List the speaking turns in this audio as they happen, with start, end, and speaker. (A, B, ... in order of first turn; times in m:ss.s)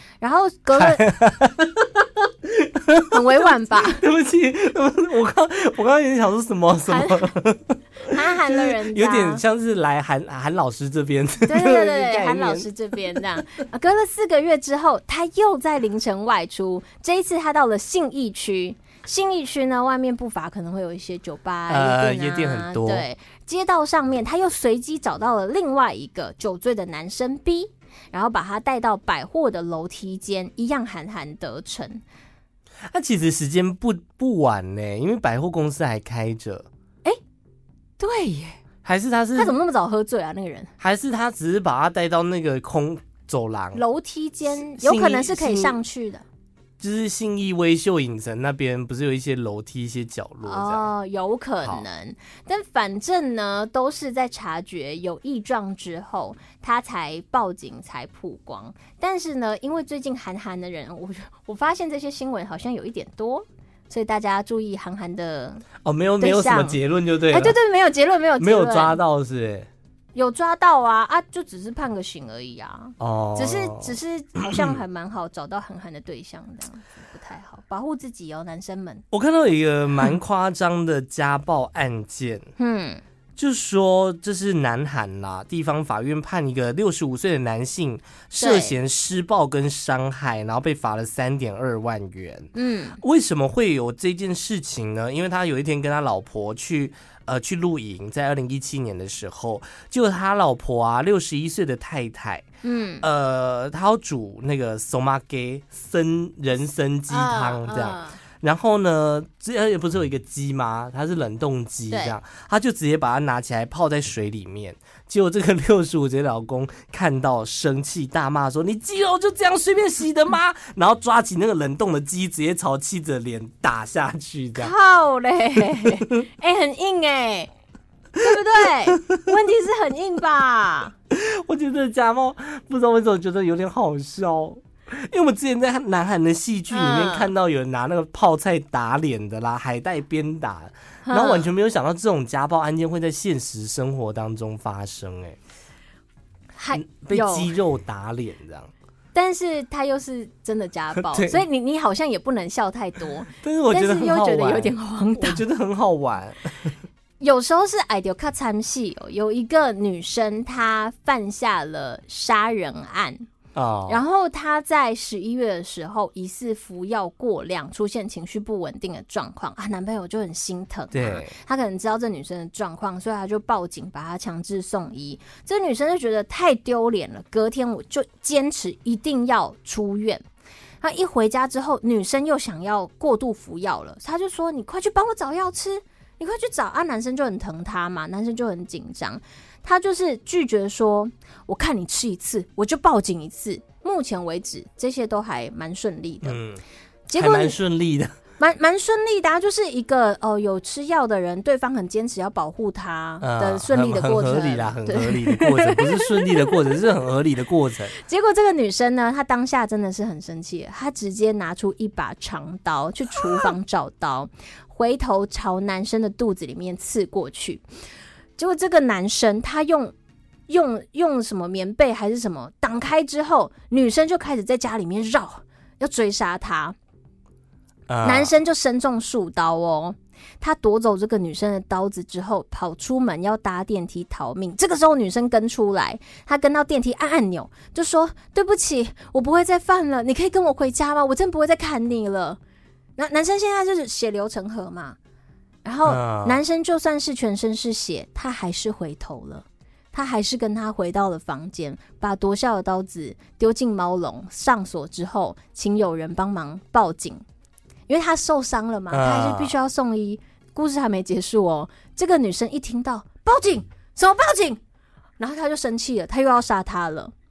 0:00.2-0:01.2 A
0:00.8-0:13.4 B
0:03.1-0:04.0 A
0:06.8-0:07.3 A
0:08.1-0:09.4 A
0:11.4-0:32.0 A
0:21.7-0:23.1 B
0:32.9-0:36.7 B
0:38.0-0:38.6 A
0:38.8-0:39.5 B
0:39.4-0:40.7 A
0:40.8-0:43.8 B
0:43.7-0:46.2 A
0:44.5-0:45.8 B
0:46.8-0:50.9 B
0:50.4-1:05.6 A
1:05.8-1:07.6 B
1:06.2-1:06.8 A
1:07.3-1:09.0 A
1:08.4-1:09.7 B
1:10.1-1:19.0 A
1:13.0-1:14.8 B
1:19.1-1:22.4 B
1:22.6-1:23.0 A
1:23.4-1:42.4 B
1:28.4-1:28.8 A
1:32.5-1:33.0 A
1:42.6-1:43.0 A
1:43.0-2:04.7 B
1:47.1-1:48.2 A
1:51.9-1:52.1 A
2:04.6-2:07.5 A
2:08.2-2:10.9 A
2:08.3-2:09.2 B
2:11.1-2:25.4 B
2:16.7-2:17.3 A
2:21.0-2:21.5 A
2:26.6-2:27.5 A
2:26.8-2:28.7 B
2:29.1-2:35.4 A
2:31.0-2:31.4 B
2:33.3-2:36.7 B
2:37.2-2:43.3 A
2:43.5-2:44.0 B
2:43.9-3:00.2 A
2:50.9-2:51.4 B
3:00.8-3:16.4 A
3:16.2-3:16.6 B
3:17.1-3:17.6 A
3:17.2-3:18.1 B
3:18.4-3:26.8 A
3:23.2-3:28.0 B
3:28.0-3:37.6 A
3:38.4-3:39.9 A
3:40.5-3:46.8 A
3:47.9-3:48.3 B
3:48.0-4:02.4 A
4:03.0-4:05.0 A
4:05.6-4:17.2 A
4:05.8-4:06.4 B
4:17.9-4:24.6 A
4:18.9-4:19.6 B
4:25.2-4:27.1 A